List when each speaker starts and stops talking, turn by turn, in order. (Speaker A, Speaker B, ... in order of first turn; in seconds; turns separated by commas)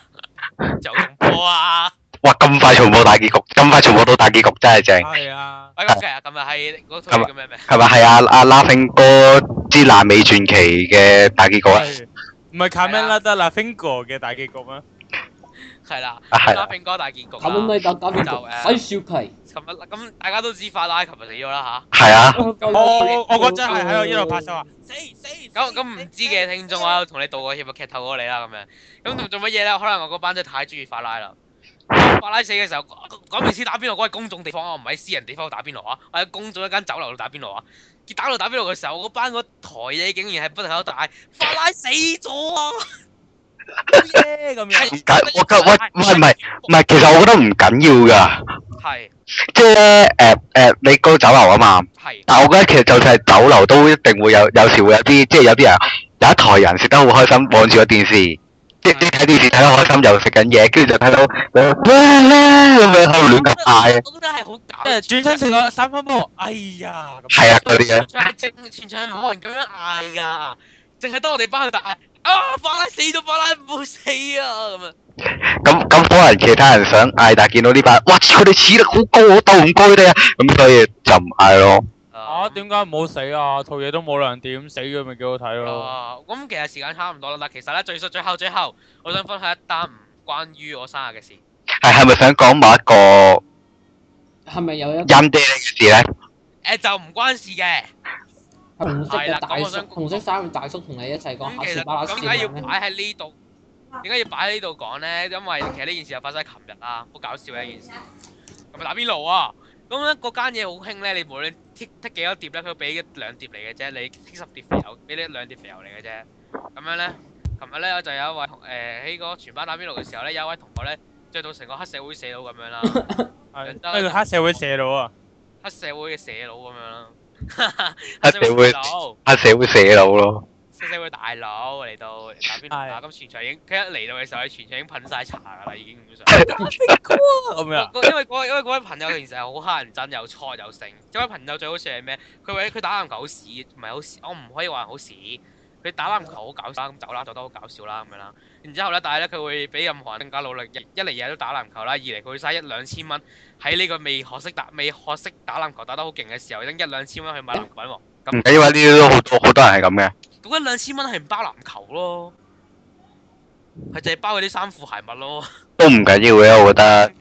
Speaker A: 0.8-1.9, Speaker B: 2.2-5.1, Speaker C: 5.0-5.7, Speaker A: 5.8-7.7, Speaker B: 7.1-11.9, Speaker C: 11.7-14.8, Speaker A: 12.8-13.2, Speaker A: 15.8-18.8, Speaker B: 16.3-16.7, Speaker D: 17.4-19.3, Speaker A: 19.5-21.9, Speaker B: 21.9-22.4, Speaker D: 22.3-24.6, Speaker A: 22.6-23.1, Speaker C: 22.7-25.8, Speaker A: 25.5-31.4, Speaker A: 31.9-42.9, Speaker C: 43.9-44.9, Speaker A: 44.7-46.7, Speaker B: 44.9-48.4, Speaker A: 48.8-49.1, Speaker B: 49.5-64.0, Speaker A: 52.0-52.2, Speaker A: 63.3-65.5, Speaker C: 64.8-67.6, Speaker B: 67.3-68.1, Speaker A: 67.6-74.9, Speaker B: 75.6-81.8, Speaker A: 82.1-82.6, Speaker C: 82.2-85.9, Speaker A: 85.6-91.4, Speaker B: 91.8-93.4, Speaker D: 94.5-95.2, Speaker B: 95.0-96.0, Speaker A: 96.6-97.9, Speaker D: 98.8-102.7, Speaker A: 99.1-100.2, Speaker A: 101.4-103.3, Speaker A: 104.0-107.9, Speaker A: 108.7-123.0, Speaker D: 122.8-123.3, Speaker C: 123.5-125.1, Speaker A: 123.6-124.2, Speaker A: 125.6-129.2, Speaker B: 128.2-130.4, Speaker A: 130.8-136.4, Speaker C: 132.7-133.0, Speaker B: 136.3-137.1, Speaker C: 136.5-137.9, Speaker A: 137.8-158.5, Speaker B: 158.3-160.1, Speaker A: 160.4-162.3, Speaker A: 163.9-165.5, Speaker B: 165.8-167.1